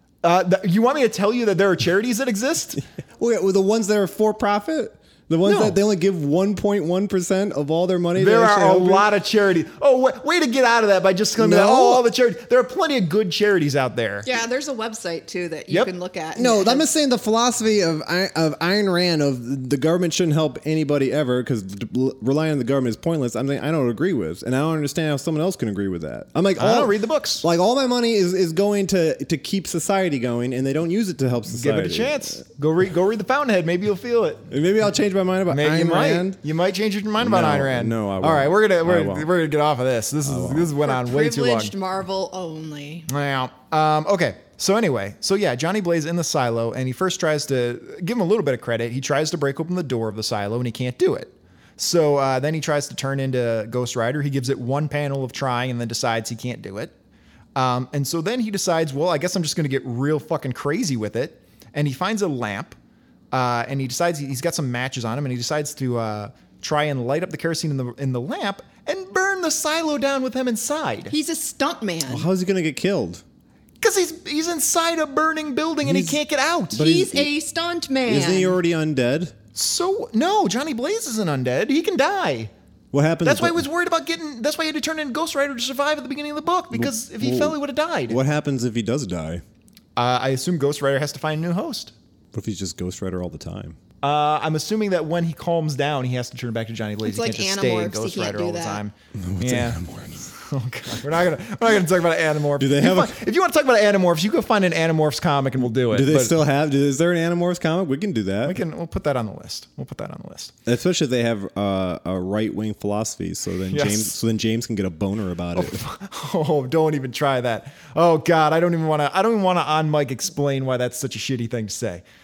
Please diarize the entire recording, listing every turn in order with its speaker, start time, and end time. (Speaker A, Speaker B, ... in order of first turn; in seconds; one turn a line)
Speaker A: 0.2-2.8
Speaker B: 2.8-9.1
Speaker A: 5.4-5.8
Speaker A: 8.2-14.3
Speaker B: 11.4-12.0
Speaker C: 14.2-16.9
Speaker B: 16.4-32.4
Speaker A: 26.6-27.4
Speaker A: 31.5-34.5
Speaker B: 34.5-36.4
Speaker A: 35.5-41.7
Speaker B: 37.2-39.3
Speaker B: 40.2-40.7
Speaker C: 40.8-43.1
Speaker A: 43.1-56.9
Speaker A: 57.5-62.8
Speaker A: 63.3-71.1
Speaker C: 71.1-72.3
Speaker B: 72.1-73.2
Speaker A: 73.8-76.9
Speaker B: 75.8-76.2
Speaker B: 76.7-77.3
Speaker C: 76.7-78.6
Speaker B: 78.1-79.3
Speaker A: 79.5-82.5
Speaker B: 82.9-83.6
Speaker A: 83.2-88.2
Speaker B: 86.7-89.4
Speaker A: 90.0-91.9
Speaker B: 92.3-93.8
Speaker A: 94.0-99.8
Speaker C: 97.0-98.8
Speaker B: 99.2-100.3
Speaker A: 100.3-106.4
Speaker B: 102.6-103.2
Speaker B: 105.9-108.6
Speaker A: 108.4-110.5
Speaker B: 110.7-115.8
Speaker A: 113.7-114.2
Speaker A: 115.5-122.0